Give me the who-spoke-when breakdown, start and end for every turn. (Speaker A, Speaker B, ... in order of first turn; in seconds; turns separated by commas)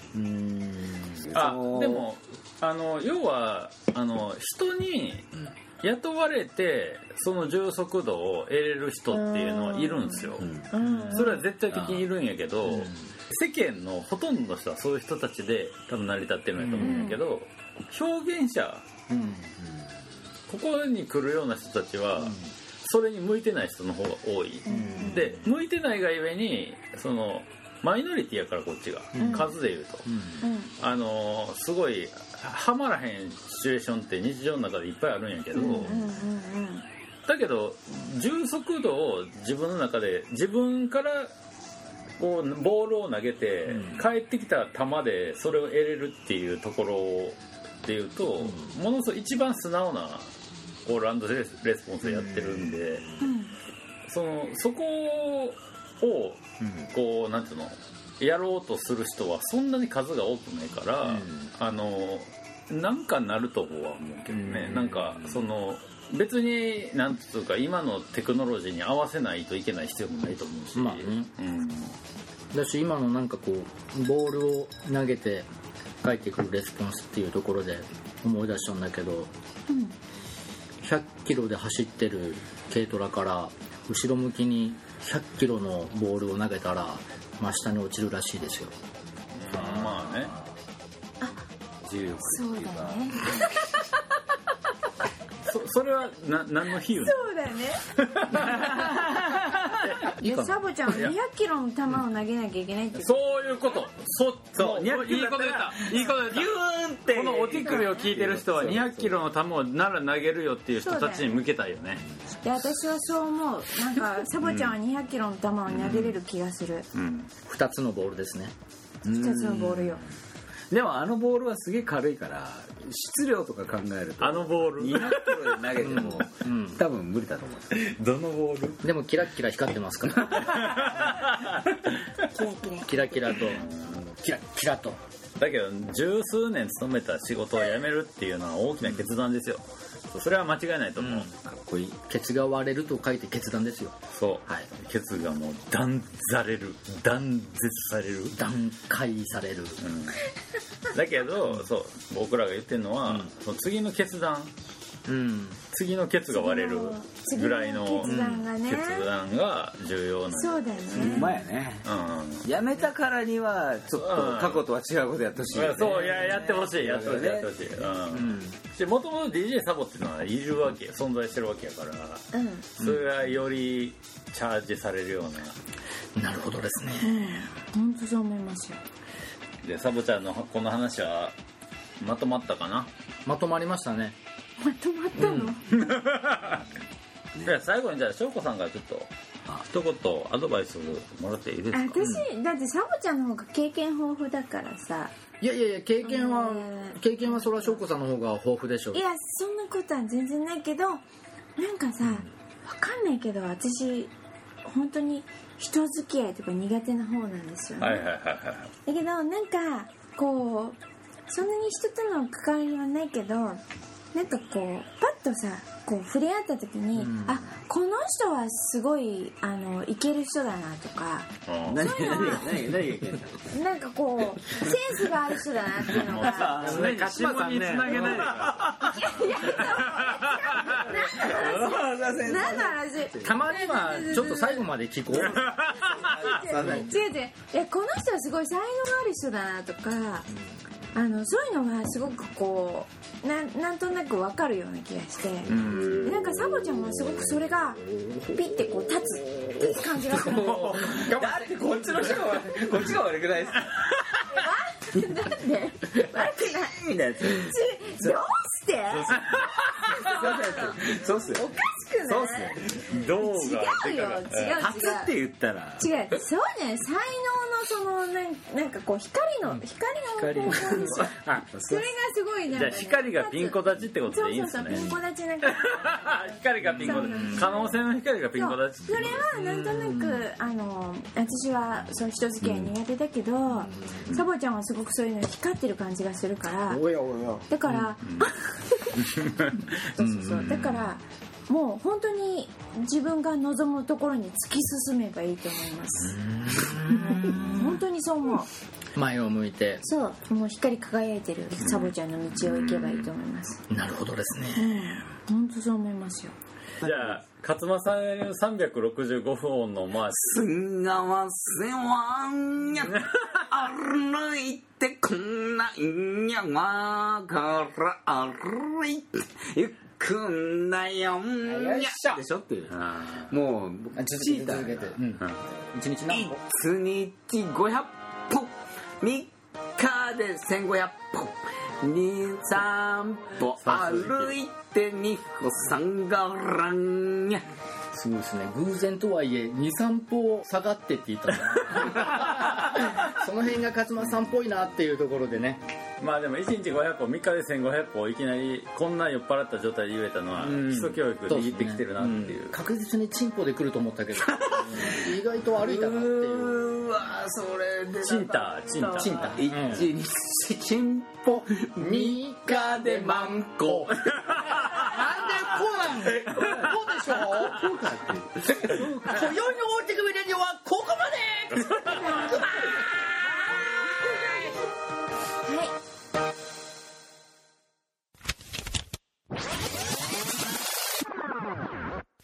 Speaker A: 0.2-1.0, Speaker B: 0.9-2.1, Speaker C: 1.3-5.3, Speaker C: 5.8-19.3, Speaker D: 9.1-11.4, Speaker B: 10.4-10.7, Speaker A: 10.8-11.2, Speaker B: 11.7-12.1, Speaker B: 16.6-17.1, Speaker D: 16.8-17.2, Speaker A: 19.1-19.5, Speaker C: 20.5-30.1, Speaker D: 24.7-25.2, Speaker A: 24.7-25.4, Speaker A: 29.1-29.5, Speaker D: 29.2-29.5, Speaker A: 30.1-30.4, Speaker D: 30.4-30.7, Speaker C: 30.8-36.0, Speaker D: 35.5-36.9, Speaker C: 37.3-41.3, Speaker C: 42.2-50.3, Speaker A: 43.7-44.0, Speaker A: 48.4-48.7, Speaker C: 50.9-53.1, Speaker D: 53.2-53.5, Speaker C: 54.1-72.0, Speaker A: 61.0-61.5, Speaker A: 64.3-65.0, Speaker A: 70.8-71.3, Speaker A: 72.5-75.5, Speaker A: 76.0-79.3, Speaker D: 79.7-80.0, Speaker A: 80.8-88.7, Speaker C: 89.3-90.3, Speaker B: 89.5-90.5, Speaker B: 91.8-93.5, Speaker D: 92.2-94.0, Speaker C: 95.5-97.3, Speaker D: 96.9-97.8, Speaker C: 97.8-100.3, Speaker A: 99.8-100.5, Speaker D: 100.2-103.2, Speaker C: 100.9-101.1, Speaker C: 103.0-106.5, Speaker B: 104.6-109.2, Speaker C: 107.1-112.0, Speaker D: 110.8-111.4, Speaker D: 112.4-116.9, Speaker C: 114.4-114.8, Speaker C: 115.7-116.2, Speaker C: 116.9-117.3, Speaker A: 117.5-118.5, Speaker B: 119.0-120.0, Speaker D: 119.1-120.0, Speaker B: 120.7-127.9, Speaker C: 124.2-125.8, Speaker A: 125.8-126.8, Speaker C: 127.7-128.8, Speaker A: 128.8-130.9, Speaker C: 130.4-131.9, Speaker D: 132.3-133.4, Speaker A: 132.8-135.0, Speaker C: 133.4-133.9, Speaker C: 135.4-141.3, Speaker A: 141.0-141.3, Speaker B: 141.4-142.0, Speaker A: 142.1-144.0, Speaker C: 144.1-148.5, Speaker A: 148.3-149.8, Speaker C: 149.8-150.2, Speaker C: 150.9-154.5, Speaker A: 155.1-155.6, Speaker C: 155.7-162.5, Speaker D: 156.3-159.1, Speaker A: 158.0-158.4, Speaker D: 160.3-161.4, Speaker B: 160.9-161.8, Speaker B: 162.4-168.0, Speaker C: 164.0-164.6, Speaker C: 165.5-175.6, Speaker A: 168.1-168.6, Speaker D: 172.3-172.7, Speaker A: 176.2-177.5, Speaker D: 177.0-178.8, Speaker C: 179.6-181.4, Speaker C: 182.0-182.9, Speaker A: 183.2-184.2, Speaker D: 184.6-185.6, Speaker A: 185.2-185.6, Speaker C: 185.7-186.7, Speaker C: 187.4-192.2, Speaker D: 191.7-195.1, Speaker A: 192.0-192.3, Speaker A: 195.4-199.0, Speaker D: 196.0-197.8, Speaker D: 198.9-201.0, Speaker D: 201.6-204.1, Speaker D: 204.6-208.1, Speaker C: 207.8-208.7, Speaker D: 208.9-213.6, Speaker D: 214.1-222.7, Speaker A: 217.0-217.4, Speaker C: 221.5-222.4, Speaker B: 221.7-223.5, Speaker D: 223.5-226.7, Speaker C: 226.0-230.7, Speaker B: 226.1-227.1, Speaker A: 226.5-228.7, Speaker B: 227.9-228.7, Speaker D: 228.8-234.7, Speaker B: 230.6-233.3, Speaker A: 233.2-235.5, Speaker C: 235.3-236.1, Speaker B: 235.7-237.0, Speaker D: 235.8-240.3, Speaker A: 236.6-236.8, Speaker D: 240.9-250.9, Speaker C: 245.5-246.2, Speaker B: 250.2-253.9, Speaker D: 254.3-259.2, Speaker B: 256.2-258.2, Speaker C: 259.1-260.0, Speaker D: 259.9-265.1, Speaker B: 259.9-261.5, Speaker B: 262.0-262.8, Speaker C: 262.9-264.6, Speaker B: 264.6-265.9, Speaker D: 265.8-277.8, Speaker B: 270.2-271.9, Speaker A: 270.4-270.8, Speaker C: 272.5-274.9, Speaker C: 275.4-279.3, Speaker D: 278.4-286.9, Speaker A: 279.3-280.2, Speaker B: 282.4-282.7, Speaker A: 283.5-284.1, Speaker A: 286.7-287.9, Speaker D: 287.5-296.2, Speaker C: 288.0-288.3, Speaker C: 289.2-289.6, Speaker A: 290.2-290.5, Speaker A: 296.0-297.8, Speaker D: 296.9-298.5, Speaker A: 298.9-299.8, Speaker D: 299.8-303.6, Speaker C: 301.6-303.1, Speaker A: 303.7-304.9, Speaker D: 304.5-306.4, Speaker C: 306.8-310.3, Speaker E: 310.1-322.7, Speaker C: 312.9-313.4, Speaker A: 321.4-322.2, Speaker C: 322.7-323.3, Speaker E: 323.3-323.8, Speaker B: 323.7-325.0, Speaker A: 323.9-326.4, Speaker E: 326.1-337.4, Speaker C: 333.6-334.4, Speaker A: 337.9-345.6, Speaker C: 346.0-352.6, Speaker A: 351.3-356.7, Speaker E: 354.3-365.4, Speaker C: 358.0-359.6, Speaker A: 358.9-359.8, Speaker A: 361.3-367.7, Speaker B: 367.3-369.2, Speaker A: 368.4-372.8, Speaker D: 371.9-372.5, Speaker D: 375.4-375.8